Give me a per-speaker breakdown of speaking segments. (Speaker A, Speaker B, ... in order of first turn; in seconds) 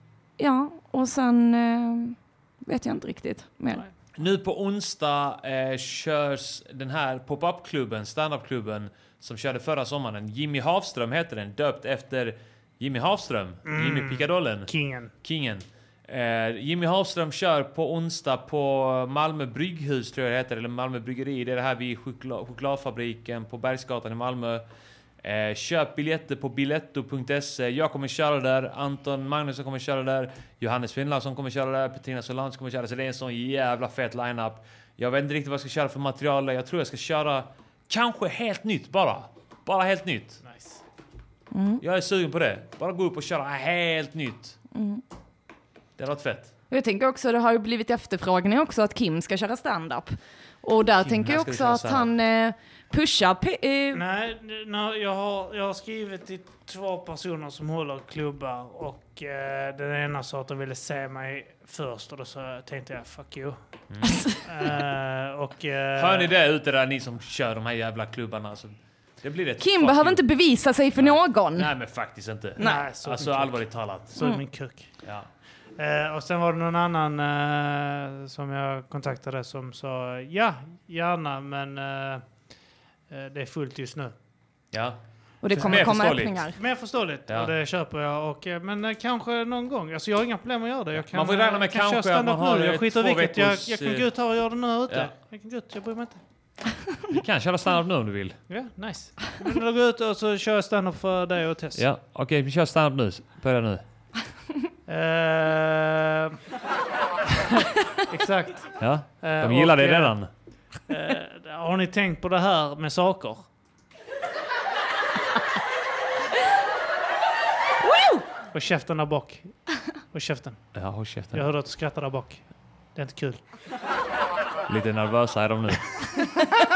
Speaker A: 0.4-3.8, 41.5-41.8, 44.7-45.0, 46.7-54.0, 69.6-71.7, 72.6-72.9, 85.4-86.5, 117.8-118.2
Speaker B: 4.2-14.7, 15.2-24.6, 25.2-40.4, 41.8-44.6, 46.0-46.5, 51.0-52.1, 63.9-64.2, 65.9-70.2, 71.0-74.2, 75.0-75.3, 84.7-86.4, 87.3-87.5, 90.9-94.0, 97.1-98.4, 101.7-103.8, 108.8-110.3, 120.7-121.4, 124.7-125.9
Speaker C: 13.6-15.1, 40.4-40.8, 53.9-63.6, 64.4-66.3, 72.6-74.9, 75.8-82.2, 83.1-84.1, 85.5-96.2, 98.5-101.8, 104.9-106.4, 107.5-110.2, 110.8-113.5, 118.5-120.7, 121.3-123.4